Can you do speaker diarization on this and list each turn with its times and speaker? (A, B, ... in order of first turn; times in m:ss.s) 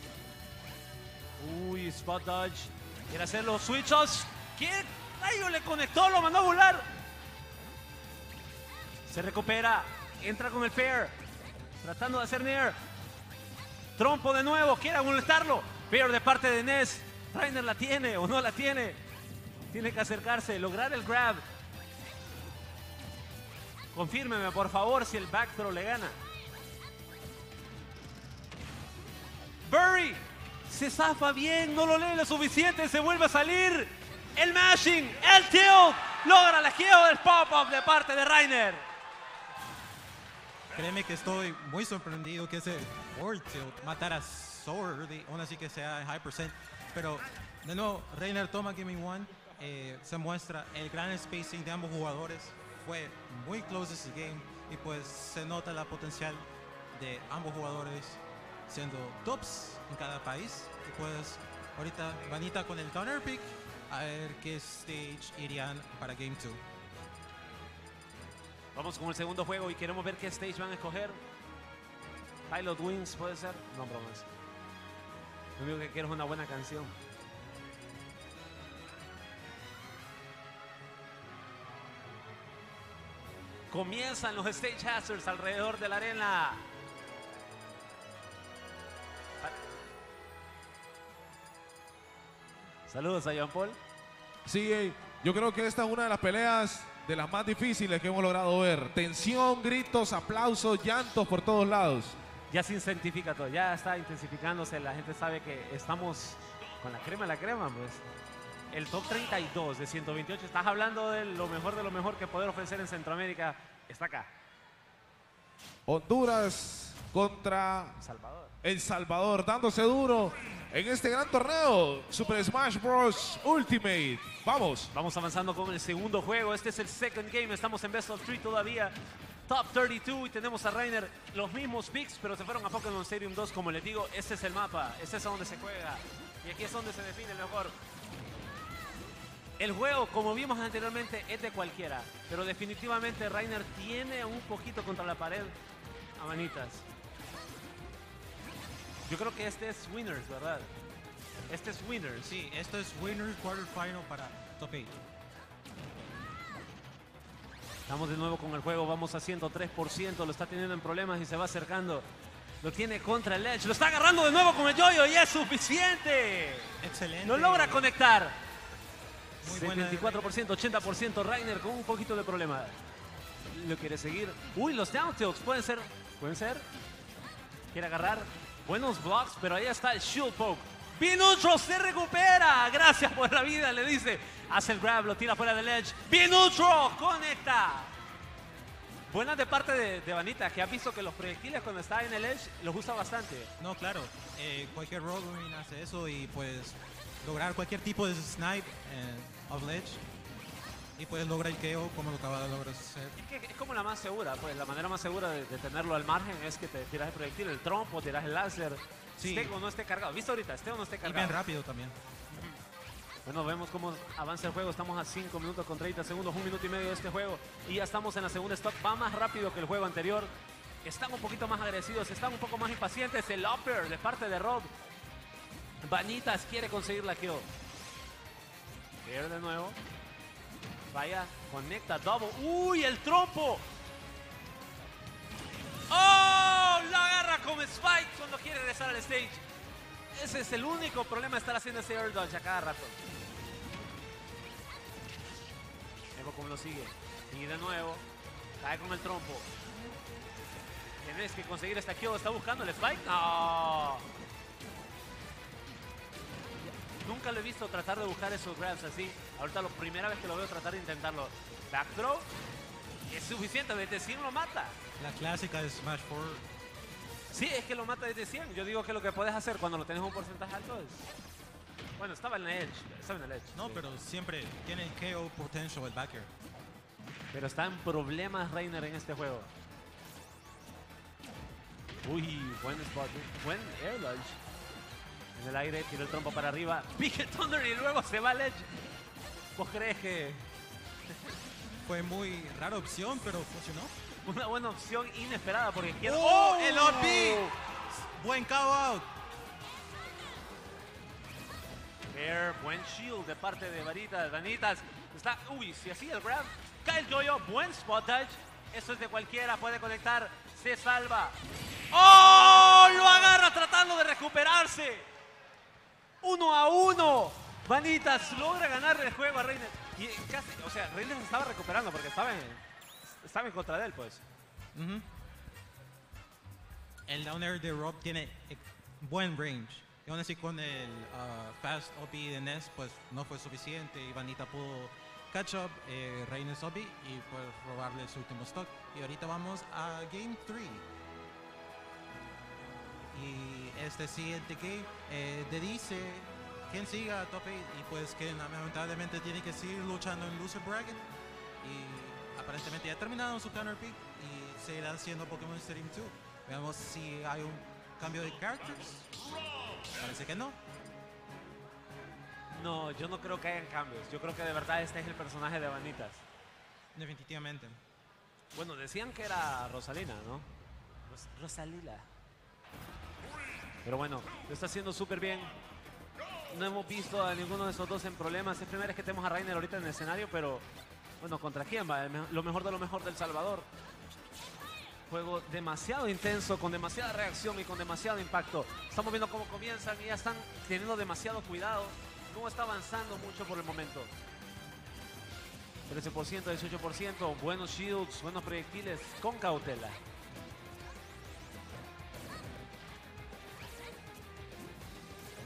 0:01.4-0:06.9 A
0:09.0-0:11.1 A
0:11.8-0:12.8 A
0:14.0-0:19.0 A
0:19.7-0:21.4 A
0:23.9-0:26.2 A
0:29.6-0:38.8 A
0:40.7-1:06.6 B
1:08.7-1:11.2 A
1:12.5-1:14.2 A
1:15.6-1:17.0 A
1:23.7-1:26.6 A
1:32.9-1:33.8 A
1:34.4-1:42.2 C
1:42.5-1:48.0 A
1:48.7-1:54.3 A
1:55.9-1:58.0 C
1:58.0-1:58.5 A
1:58.6-2:04.9 C
2:04.9-2:17.8 A
2:19.6-2:25.5 A
2:26.2-2:26.8 A
2:29.0-2:30.7 A
2:31.5-2:32.3 A
2:32.2-2:34.9 B
2:37.9-2:42.1 A
2:42.6-2:48.4 A
2:46.8-2:47.9 B
2:49.4-2:52.8 A
2:49.4-2:50.8 B
2:53.5-2:56.6 A
2:57.7-3:07.9 A
3:09.1-3:13.5 A
3:13.6-3:20.0 B
3:21.0-3:23.2 B
3:23.1-3:31.4 A
3:29.2-3:29.5 B
3:31.0-3:32.0 B
3:32.3-3:32.6 A
3:33.2-3:40.3 A
3:40.8-3:44.7 A
3:45.8-3:47.5 A
3:49.0-3:49.8 A
3:50.9-3:53.6 A
3:55.9-3:59.4 A
4:00.1-4:03.0 A
4:06.1-4:08.0 A
4:08.6-4:09.5 A
4:11.0-4:14.0 A
4:16.6-4:22.3 A
4:23.1-4:24.8 A
4:25.0-4:26.4 B
4:27.3-4:31.1 A
4:32.0-4:33.8 A
4:33.5-4:36.3 B
4:37.3-4:39.5 A
4:42.0-4:44.4 A
4:45.4-4:48.7 A
4:49.6-4:50.4 A
4:51.8-4:53.9 B
4:54.2-4:57.5 A
4:56.0-4:59.1 B
5:02.1-5:11.4 A
5:11.9-5:15.1 A
5:16.2-5:24.2 A
5:24.7-5:25.0 B
5:27.1-5:40.8 B
5:43.1-5:51.0 B
5:51.6-5:59.1 B
5:59.9-6:00.6 B
6:02.5-6:06.2 A
6:06.9-6:07.8 B
6:08.5-6:10.5 A
6:11.1-6:12.1 A
6:13.8-6:15.5 A
6:16.5-6:20.6 A
6:21.2-6:23.7 A
6:25.1-6:34.1 A
6:35.9-6:40.0 A